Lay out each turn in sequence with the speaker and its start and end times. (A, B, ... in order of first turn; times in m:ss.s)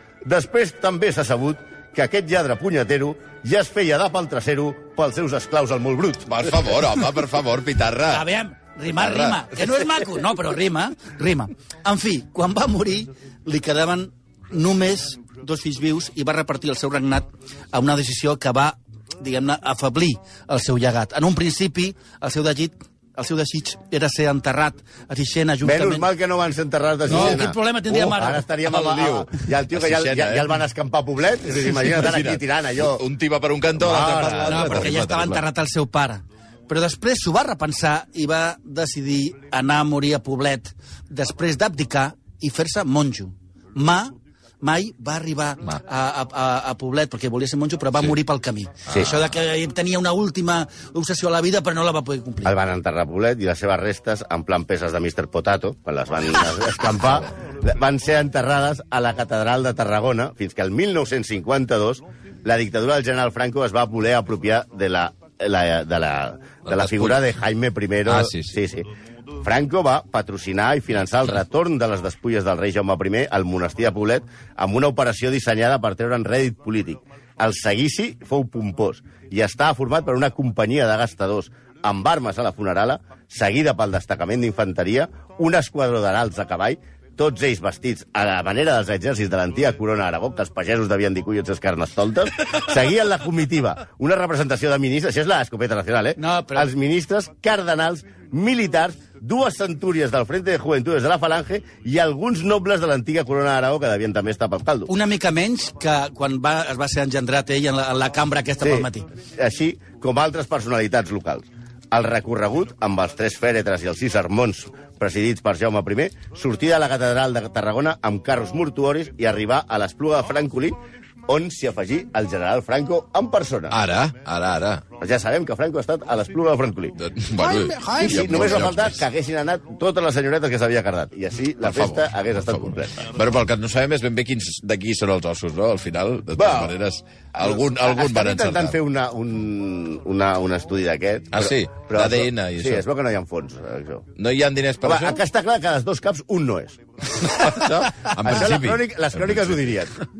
0:00.2-0:06.5 A
0:06.3-0:08.2 B
0:08.1-0:26.1 C
0:09.0-0:09.4 B
0:25.6-0:33.0 A
0:27.1-0:28.4 C
0:28.7-0:30.6 B
0:31.6-0:35.4 B
0:33.8-0:34.9 A
0:34.4-0:52.5 C
0:48.9-0:49.2 B
0:52.4-1:08.9 A
1:06.6-1:07.2 B
1:08.1-1:08.6 B
1:09.4-1:44.9 A
1:36.2-1:36.7 C
1:44.9-1:49.0 C
1:48.6-2:03.8 A
2:03.7-2:04.8 B
2:05.0-2:07.0 A
2:07.0-2:09.0 B
2:07.4-2:08.5 C
2:08.0-2:13.1 A
2:11.6-2:18.7 B
2:16.4-2:16.8 A
2:17.4-2:24.0 A
2:21.3-2:22.8 B
2:24.2-2:25.2 B
2:24.8-2:30.0 A
2:27.2-2:29.5 B